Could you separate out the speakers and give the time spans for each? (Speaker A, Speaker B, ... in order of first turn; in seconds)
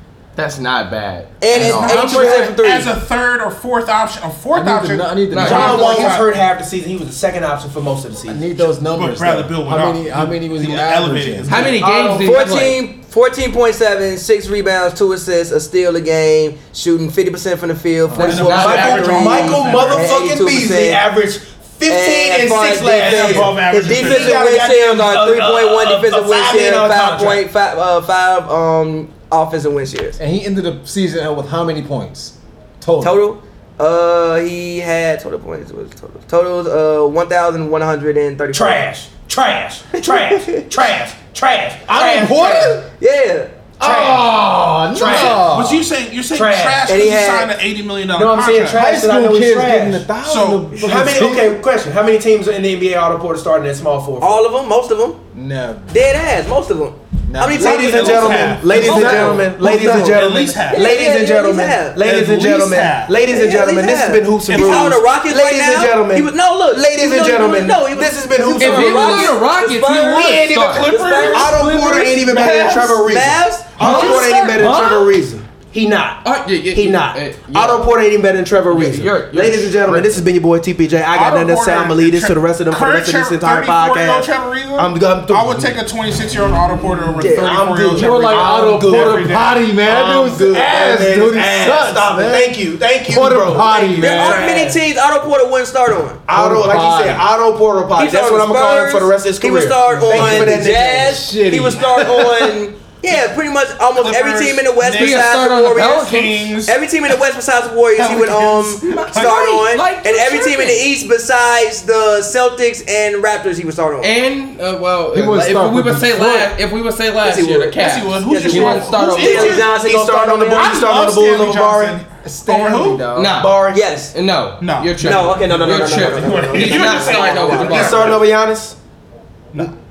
Speaker A: 0.4-2.4, 4.5-6.2, 8.3-11.5, 18.1-18.5, 30.2-33.2, 41.9-42.8, 43.8-45.9, 48.7-51.6, 55.3-55.9, 57.3-58.0, 58.7-59.8, 87.9-92.5, 93.1-94.5, 96.3-97.3, 99.9-102.6, 115.1-116.5, 118.5-118.9, 122.2-123.5
Speaker B: 1.4-2.9, 12.2-21.0, 21.9-30.2, 33.0-38.8, 40.0-40.6, 42.2-43.5, 46.9-47.5, 54.2-55.2, 55.9-62.0, 63.3-71.6, 73.0-74.3, 87.2-87.6, 94.0-96.2, 98.0-106.1, 106.6-114.1, 117.2-120.8, 123.7-124.1, 125.0-128.2
Speaker C: 1.5-6.3, 8.9-11.9, 18.2-20.1, 23.0-24.4, 45.0-48.8, 50.2-51.0, 57.6-61.0, 62.0-63.1, 64.5-65.0, 70.6-73.1, 73.8-74.7, 81.1-89.7, 104.0-106.8, 108.0-109.4, 117.8-119.7, 120.6-123.1, 124.6-128.2
Speaker D: 1.5-2.2, 5.3-5.9, 11.5-12.8, 18.3-19.1, 68.6-70.9, 73.8-75.2, 76.2-77.8, 78.7-80.1, 104.9-106.5, 108.9-110.8, 114.0-119.6, 123.1-128.2
Speaker E: 5.4-8.6, 11.7-12.5, 18.5-27.4, 38.5-42.8, 43.8-45.5, 46.3-46.8, 48.1-50.1, 50.8-54.4, 57.6-69.3, 70.2-85.8, 87.2-94.8, 96.3-101.2, 119.1-122.0, 123.4-124.0, 127.6-128.8